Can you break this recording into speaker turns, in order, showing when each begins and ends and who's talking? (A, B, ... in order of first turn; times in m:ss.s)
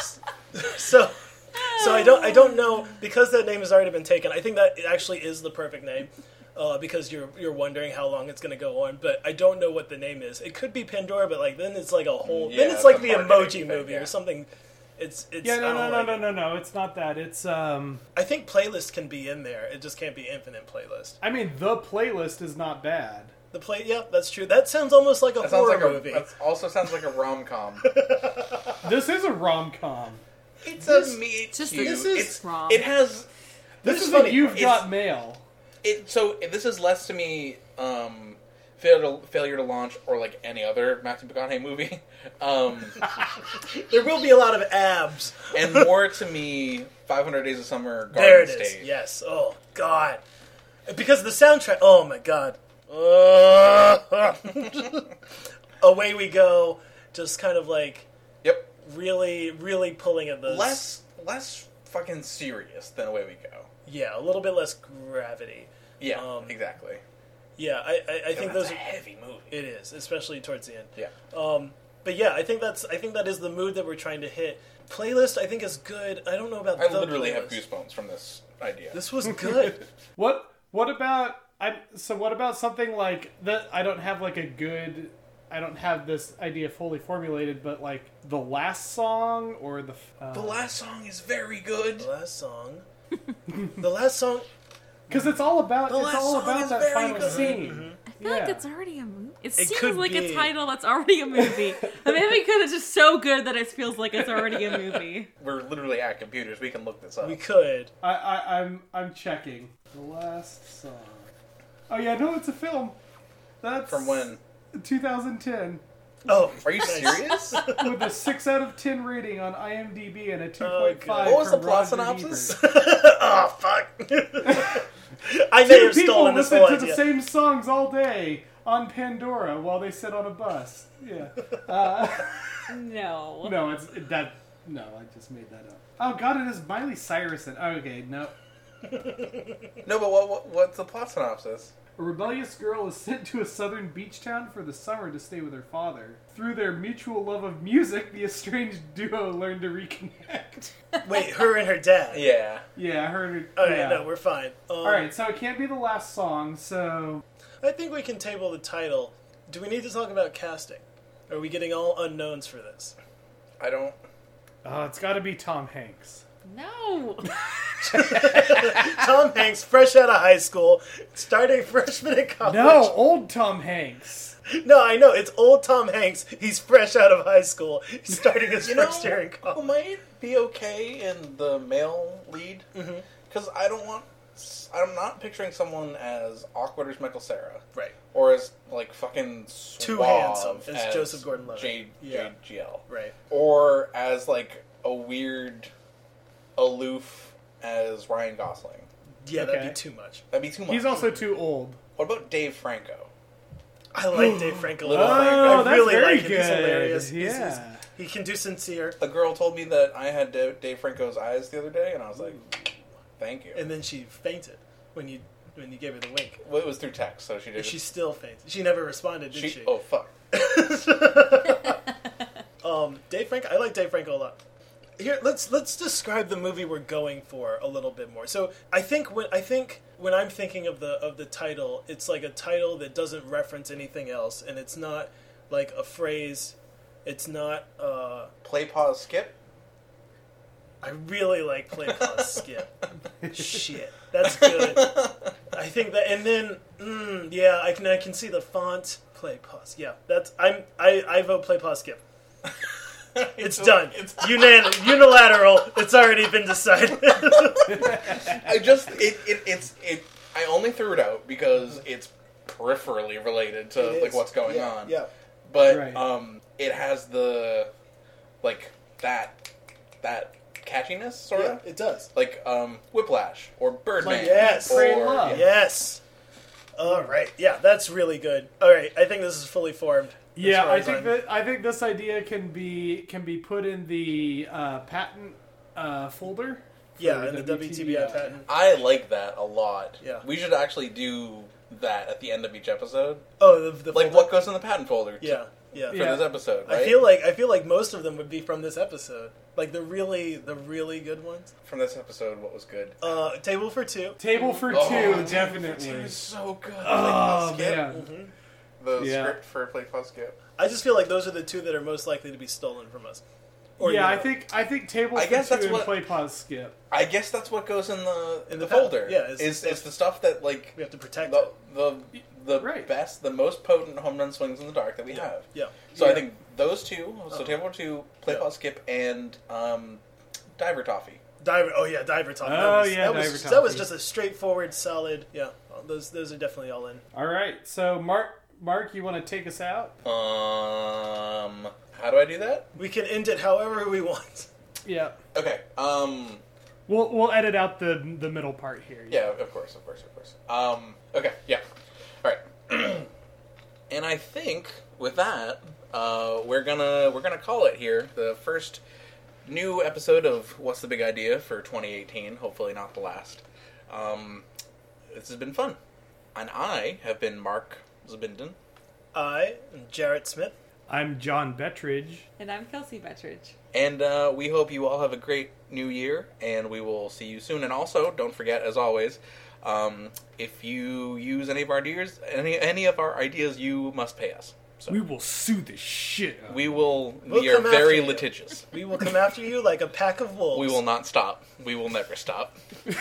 0:00.5-0:16.3 A
0:01.6-0:02.7 B
0:12.2-0:14.1 C
0:15.4-0:18.0 D
0:18.2-0:21.2 A
0:21.2-0:23.3 D
0:23.5-0:26.3 A
0:25.4-0:27.9 C
0:27.8-0:28.7 A
0:28.8-0:30.2 D
0:30.6-0:33.3 C
0:30.8-0:31.2 A
0:31.5-0:32.9 B
0:31.7-0:32.4 A
0:33.8-0:34.8 A
0:33.8-0:35.4 D
0:35.8-0:43.0 C
0:43.7-0:45.9 A
0:45.5-0:48.9 C
0:48.1-0:50.2 A
0:50.9-0:55.0 A
0:55.8-0:58.1 A
0:58.4-0:58.7 C
0:58.8-1:00.8 A
1:00.4-1:03.7 C
1:03.9-1:06.6 A
1:06.0-1:07.0 C
1:07.6-1:08.8 A
1:08.3-1:09.6 C
1:09.5-1:17.6 A
1:16.8-1:19.0 C
1:18.9-1:19.9 A
1:19.4-1:30.7 D
1:30.3-1:32.1 C
1:32.0-1:32.8 A
1:33.7-1:34.5 A
1:35.1-1:38.6 D
1:35.9-1:37.6 C
1:37.2-1:38.0 A
1:38.1-1:45.3 B
1:39.6-1:40.5 A
1:45.4-1:47.4 C
1:47.2-1:47.9 A
1:48.0-1:51.3 D
1:51.9-1:53.0 D
1:53.6-1:55.8 D
1:53.9-1:54.4 C
1:56.2-1:57.9 A
1:56.6-1:57.7 C
1:57.6-2:02.6 D
2:00.6-2:01.4 A
2:01.2-2:02.6 C
2:02.5-2:07.0 A
2:04.4-2:04.8 D
2:05.6-2:12.7 D
2:12.7-2:13.6 B
2:13.4-2:18.3 D
2:19.8-2:21.7 C
2:22.0-2:30.7 D
2:31.0-2:32.2 A
2:32.1-2:32.6 C
2:32.8-2:34.1 D
2:33.6-2:35.1 A
2:34.8-2:37.2 D
2:37.6-2:43.0 A
2:43.6-2:44.0 C
2:44.6-2:46.2 D
2:46.4-2:48.2 B
2:47.9-2:52.9 A
2:52.4-2:54.4 D
2:54.5-2:59.7 A
2:58.6-3:02.7 C
3:02.7-3:03.1 A
3:03.3-3:07.6 C
3:08.1-3:15.7 C
3:09.8-3:12.3 A
3:12.9-3:13.2 A
3:16.6-3:18.9 C
3:19.2-3:20.2 A
3:19.3-3:19.8 D
3:20.3-3:21.1 C
3:20.7-3:21.8 D
3:22.0-3:23.1 C
3:23.9-3:29.0 A
3:24.1-3:27.8 D
3:24.8-3:25.9 C
3:29.0-3:32.4 C
3:33.2-3:33.6 C
3:33.6-3:36.4 A
3:36.4-3:37.8 C
3:37.6-3:39.7 A
3:39.3-3:40.1 C
3:40.3-3:41.8 A
3:42.6-3:44.4 A
3:45.0-3:58.3 A
3:58.4-3:59.4 C
4:00.8-4:02.7 A
4:03.3-4:12.0 A
4:04.4-4:05.1 C
4:13.2-4:14.7 C
4:13.2-4:17.9 A
4:17.4-4:25.0 C
4:23.7-4:25.1 A
4:25.5-4:27.7 C
4:25.7-4:26.0 D
4:28.4-4:29.4 C
4:30.0-4:35.5 C
4:31.3-4:32.1 A
4:34.0-4:36.0 A
4:34.2-4:35.4 D
4:36.8-4:41.2 A
4:36.8-4:37.2 D
4:40.4-4:48.3 D
4:47.0-4:48.5 A
4:48.5-4:53.3 C
4:50.0-4:50.3 A
4:53.4-4:54.4 A
4:53.9-4:57.0 C
4:55.2-5:01.5 A
4:55.9-4:56.2 D
5:01.6-5:03.0 C
5:03.0-5:04.2 A
5:04.2-5:06.2 D
5:04.3-5:04.6 B
5:04.7-5:08.0 C
5:06.8-5:08.0 D
5:07.9-5:08.3 A
5:08.8-5:10.4 C
5:09.0-5:09.4 D
5:10.6-5:13.2 A
5:13.8-5:14.3 A
5:13.8-5:16.8 D
5:15.1-5:16.0 C
5:16.9-5:30.0 C
5:18.5-5:19.9 A
5:20.7-5:21.5 A
5:22.6-5:22.9 D
5:25.1-5:26.2 A
5:27.3-5:27.6 A
5:30.6-5:31.2 C
5:31.4-5:37.0 A
5:32.4-5:33.9 D
5:37.1-5:40.0 D
5:40.0-5:42.7 C
5:42.7-5:44.5 A
5:44.8-5:45.2 D
5:45.3-5:46.4 C
5:46.9-5:49.2 D
5:49.1-5:51.6 C
5:52.2-5:53.1 C
5:53.9-5:58.8 C
5:59.4-6:04.4 C
6:05.1-6:05.8 C
6:06.4-6:08.6 C
6:09.1-6:10.6 A
6:10.9-6:12.3 D
6:12.4-6:13.6 B
6:13.7-6:25.0 C
6:24.9-6:26.7 D
6:26.5-6:28.7 C
6:27.3-6:30.8 A
6:30.5-6:32.6 C